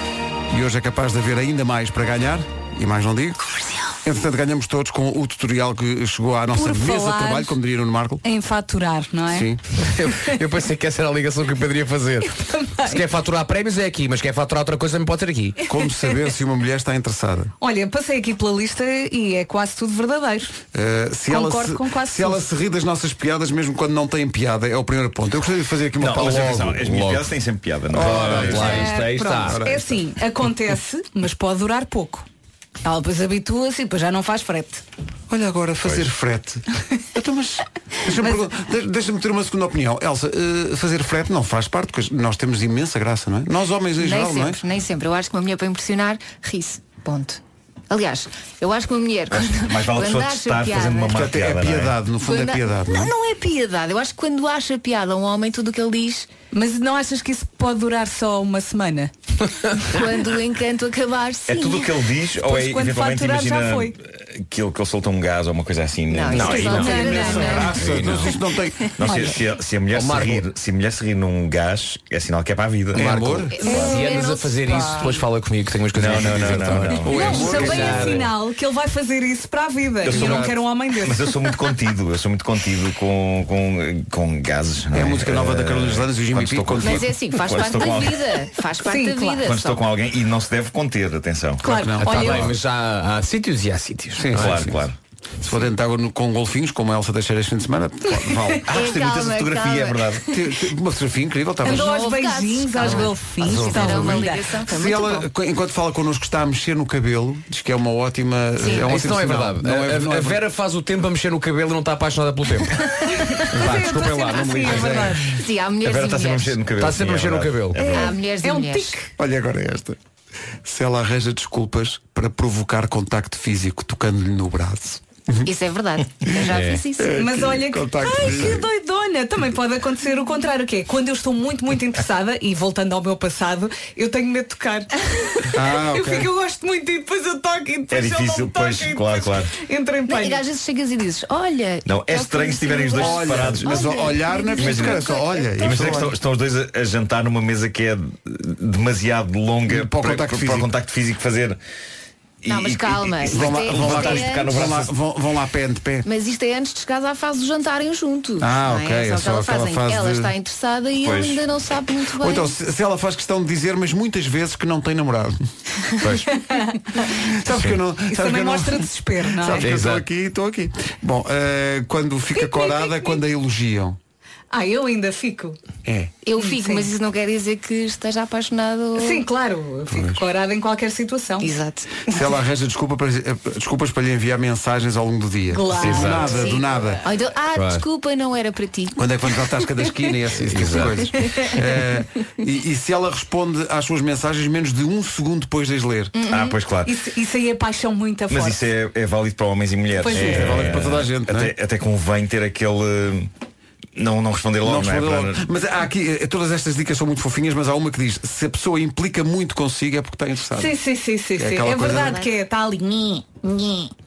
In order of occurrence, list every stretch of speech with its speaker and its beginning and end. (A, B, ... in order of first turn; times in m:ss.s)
0:00.5-0:03.5 A
0:04.0-0:08.2 A
0:06.5-0:07.6 B
0:08.2-0:09.5 B
0:09.3-0:09.6 A
0:09.8-0:15.6 C
0:12.4-0:13.0 B
0:15.7-0:17.5 A
0:17.6-0:20.5 B
0:20.7-0:27.0 A
0:21.3-0:22.5 B
0:26.0-0:28.8 D
0:26.8-0:27.3 C
0:27.9-0:30.0 A
0:27.9-0:29.6 C
0:28.5-0:32.3 B
0:32.8-0:34.8 B
0:35.3-0:44.6 A
0:38.2-0:38.5 B
0:44.0-0:51.2 E
0:49.3-0:52.0 D
0:51.1-0:53.1 A
0:52.2-0:56.3 E
0:56.5-0:59.1 B
0:59.9-1:02.0 E
1:01.5-1:07.1 D
1:02.3-1:04.0 B
1:06.1-1:07.8 E
1:06.3-1:07.0 C
1:06.6-1:07.6 B
1:06.8-1:08.9 A
1:07.8-1:08.3 D
1:07.8-1:08.3 C
1:09.0-1:13.4 D
1:09.0-1:09.4 B
1:09.9-1:10.4 C
1:12.9-1:13.6 A
1:13.0-1:18.3 C
1:13.5-1:15.2 E
1:13.6-1:14.0 B
1:15.9-1:17.4 D
1:16.4-1:18.3 A
1:17.0-1:21.4 B
1:20.0-1:28.3 D
1:20.1-1:20.5 A
1:24.9-1:27.1 A
1:26.8-1:29.9 E
1:28.8-1:29.5 B
1:29.4-1:31.6 D
1:31.6-1:32.5 B
1:31.6-1:32.6 A
1:32.0-1:34.7 C
1:34.2-1:34.8 A
1:34.4-1:35.0 D
1:35.4-1:38.7 A
1:38.7-1:40.2 D
1:38.7-1:40.2 E
1:40.3-1:42.0 A
1:41.6-1:45.3 E
1:41.6-1:44.5 B
1:42.9-1:50.4 A
1:48.6-1:48.9 E
1:48.8-1:52.8 C
1:53.1-1:55.3 B
1:53.5-1:55.2 A
1:53.5-1:55.1 C
1:55.3-1:56.6 E
1:55.8-1:58.0 D
1:56.8-1:57.8 C
1:57.8-1:59.1 B
1:57.8-1:59.0 E
1:59.2-2:00.0 A
2:00.6-2:05.5 A
2:05.4-2:07.2 E
2:06.5-2:06.8 C
2:07.0-2:08.7 A
2:07.1-2:20.4 B
2:15.5-2:16.3 A
2:17.9-2:19.5 D
2:20.1-2:26.2 E
2:21.8-2:24.0 D
2:23.0-2:26.2 A
2:24.6-2:25.0 D
2:25.6-2:31.6 D
2:29.7-2:30.7 A
2:32.4-2:34.9 D
2:32.5-2:34.6 E
2:33.3-2:36.1 A
2:36.0-2:42.6 E
2:38.4-2:40.3 A
2:41.0-2:41.4 D
2:42.2-2:45.4 A
2:46.0-2:46.3 C
2:46.3-2:47.0 B
2:47.1-2:54.0 A
2:47.5-2:47.8 C
2:48.0-2:49.7 B
2:49.6-2:50.1 C
2:52.3-2:53.2 B
2:54.5-2:55.6 B
2:55.8-2:56.1 A
2:56.2-2:59.3 E
2:56.4-2:56.9 B
2:59.0-3:01.5 B
2:59.9-3:00.2 A
3:01.4-3:01.9 E
3:02.1-3:07.0 A
3:05.5-3:06.6 B
3:05.8-3:06.4 C
3:06.3-3:09.0 E
3:07.6-3:07.8 C
3:09.0-3:16.1 A
3:10.4-3:11.0 C
3:11.2-3:11.5 B
3:16.1-3:16.6 E
3:16.3-3:16.9 D
3:16.9-3:18.6 B
3:18.3-3:23.3 D
3:20.0-3:20.6 B
3:20.1-3:21.5 A
3:24.0-3:25.4 D
3:24.6-3:30.8 A
3:30.6-3:33.9 B
3:31.4-3:32.2 A
3:31.9-3:32.3 E